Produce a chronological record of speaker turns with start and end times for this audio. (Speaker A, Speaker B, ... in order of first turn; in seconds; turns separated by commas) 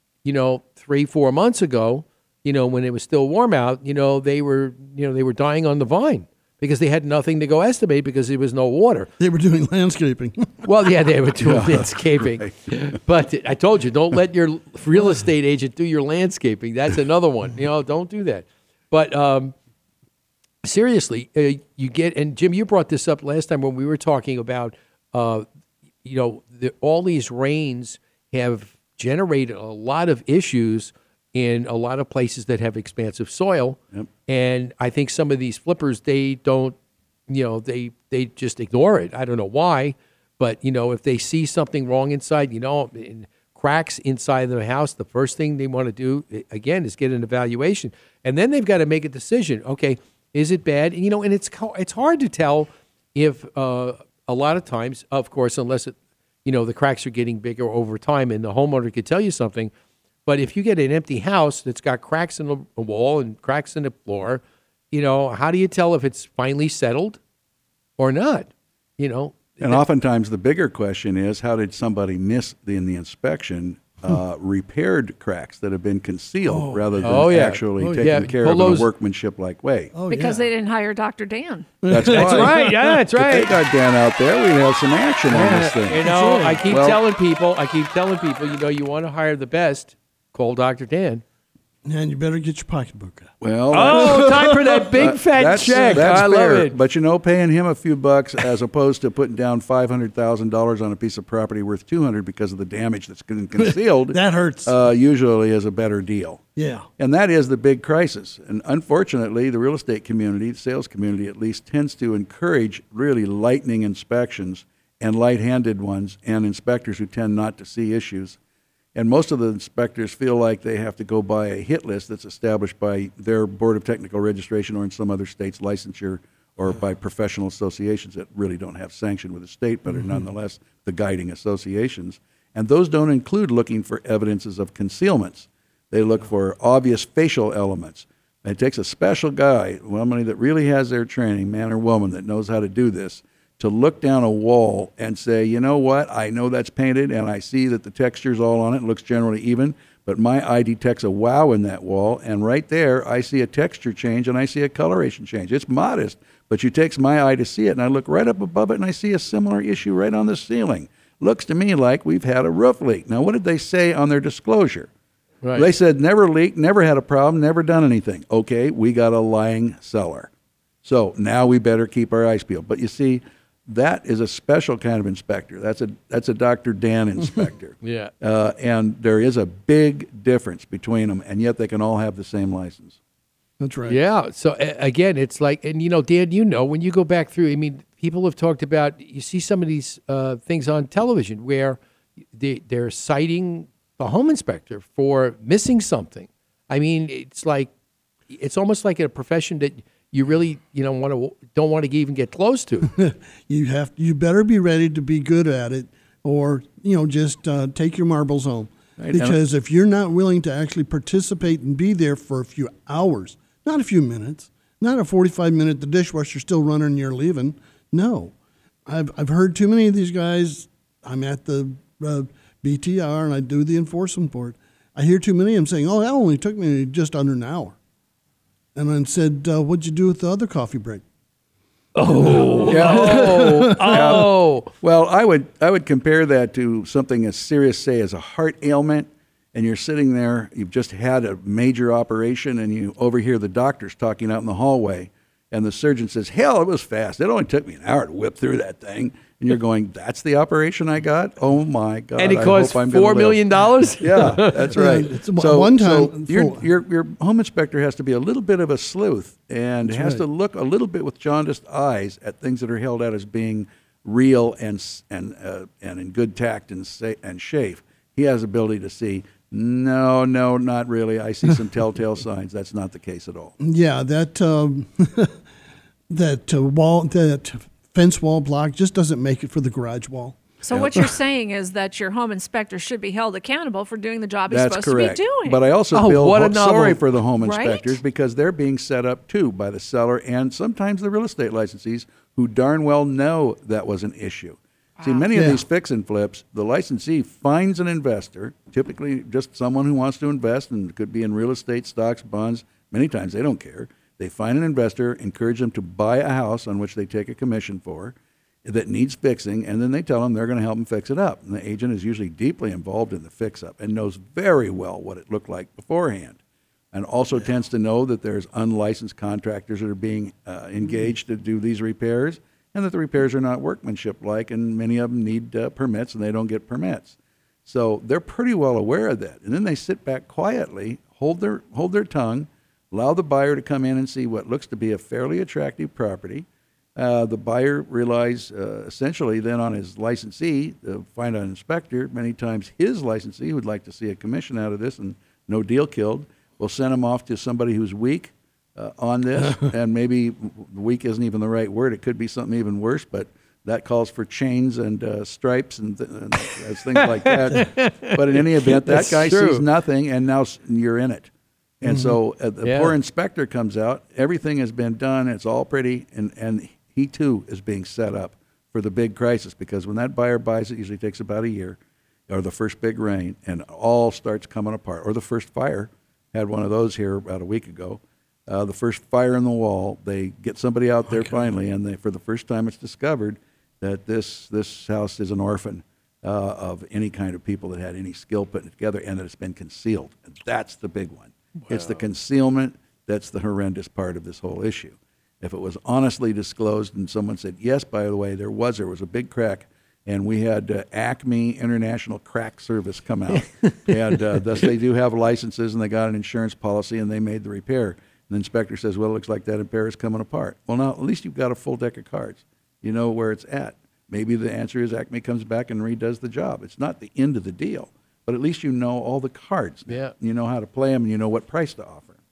Speaker A: 0.2-9.1, Speaker B: 9.2-10.7, Speaker A: 10.6-19.5, Speaker C: 11.4-12.5, Speaker A: 20.6-25.4, Speaker A: 26.0-36.8, Speaker A: 37.3-59.7, Speaker A: 60.2-67.2, Speaker A: 68.0-69.8, Speaker C: 69.6-79.9, Speaker B: 76.4-78.3, Speaker A: 77.0-78.9, Speaker B: 79.9-80.5, Speaker D: 80.1-81.8, Speaker B: 81.8-83.0, Speaker C: 81.9-82.6, Speaker A: 82.1-83.5, Speaker C: 83.2-86.1, Speaker A: 85.3-91.2, Speaker B: 86.0-86.7, Speaker C: 86.7-87.0, Speaker B: 91.8-94.5, Speaker C: 93.4-106.4, Speaker A: 93.7-96.8, Speaker B: 95.6-96.1, Speaker B: 103.6-104.8, Speaker B: 106.5-106.9, Speaker C: 107.0-118.4, Speaker C: 118.9-164.9, Speaker C: 165.5-170.3, Speaker C: 170.8-183.0, Speaker A: 177.8-178.1, Speaker B: 183.6-184.0, Speaker A: 183.9-191.8, Speaker A: 192.3-197.7, Speaker A: 198.3-202.9, Speaker B: 202.9-218.3, Speaker C: 209.0-209.4, Speaker B: 218.8-227.8, Speaker B: 228.7-231.0, Speaker A: 231.9-234.7, Speaker B: 232.1-234.2, Speaker C: 232.7-253.4, Speaker A: 252.2-254.7, Speaker C: 254.0-273.5, Speaker B: 254.7-256.7, Speaker B: 259.8-260.2, Speaker B: 273.6-275.4, Speaker B: 276.1-281.0, Speaker D: 280.6-285.6, Speaker C: 280.7-281.2, Speaker C: 284.5-316.4, Speaker A: 285.9-287.0, Speaker D: 287.4-288.0, Speaker D: 295.0-295.2, Speaker B: 295.3-295.6, Speaker C: 316.9-361.3, Speaker A: 357.2-359.6, Speaker C: 361.8-422.1, Speaker B: 361.8-362.2, Speaker A: 362.6-362.9, Speaker A: 391.7-392.0, Speaker A: 403.3-404.2, Speaker A: 419.9-420.1